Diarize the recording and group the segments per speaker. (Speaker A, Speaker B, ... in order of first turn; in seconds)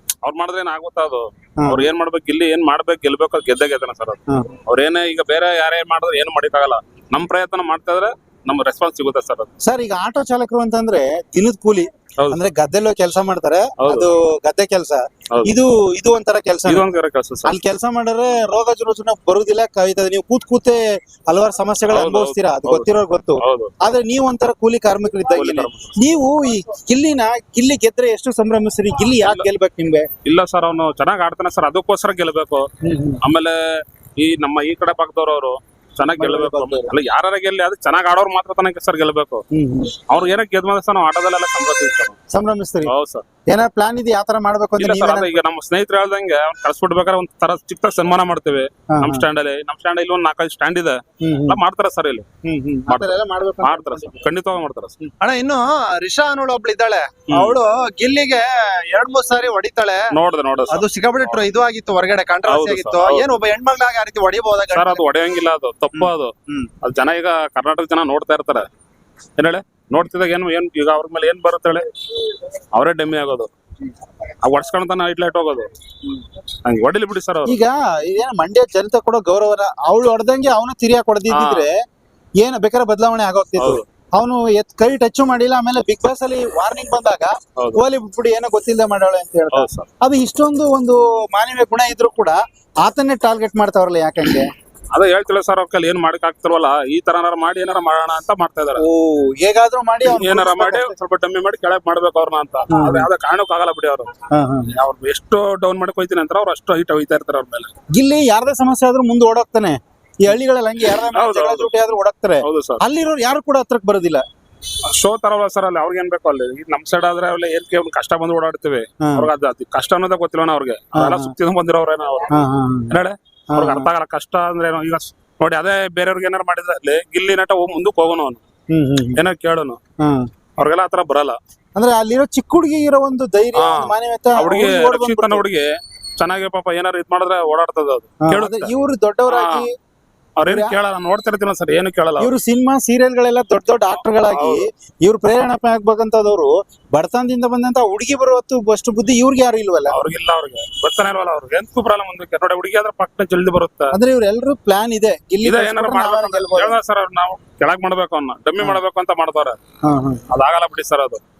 Speaker A: 0.2-9.5, 12.2-12.5, 13.8-14.1, 16.7-17.6, 21.9-23.7, 25.3-26.0, 29.2-29.5, 30.2-32.7, 33.2-39.4, 40.1-42.2, 42.9-43.2, 44.8-52.3, 52.9-55.0, 57.3-57.6, 60.1-61.4, 62.5-63.3, 64.7-68.7, 69.4-71.9, 72.8-73.5, 74.4-75.7, 76.7-77.6, 81.3-81.7, 83.6-83.8, 89.5-89.9, 94.9-98.8, 100.0-104.1, 104.7-107.7, 111.1-111.7, 112.4-112.8, 114.9-122.3, 122.9-128.4, 129.2-129.8, 130.6-131.4, 133.6-135.7, 136.2-138.7, 139.3-139.6, 140.4-142.3, 144.3-144.7, 149.9-153.9, 155.4-159.6, 160.3-161.2
Speaker B: 1.6-1.9, 9.6-16.9, 17.4-30.1, 32.8-33.2, 36.2-37.0, 39.5-39.9, 42.3-42.9, 43.5-45.4, 48.9-49.2, 51.2-51.6, 52.5-54.3, 77.5-81.7, 82.4-94.5, 98.8-100.9, 102.7-103.1, 104.3-104.7, 108.0-114.2, 119.0-119.3, 121.0-121.3, 122.3-123.0, 123.5-123.9, 128.7-129.2, 131.8-135.5, 138.2-139.7, 140.4-140.8, 142.2-150.0, 153.9-156.8, 159.9-160.2
Speaker C: 55.2-60.0, 60.7-65.0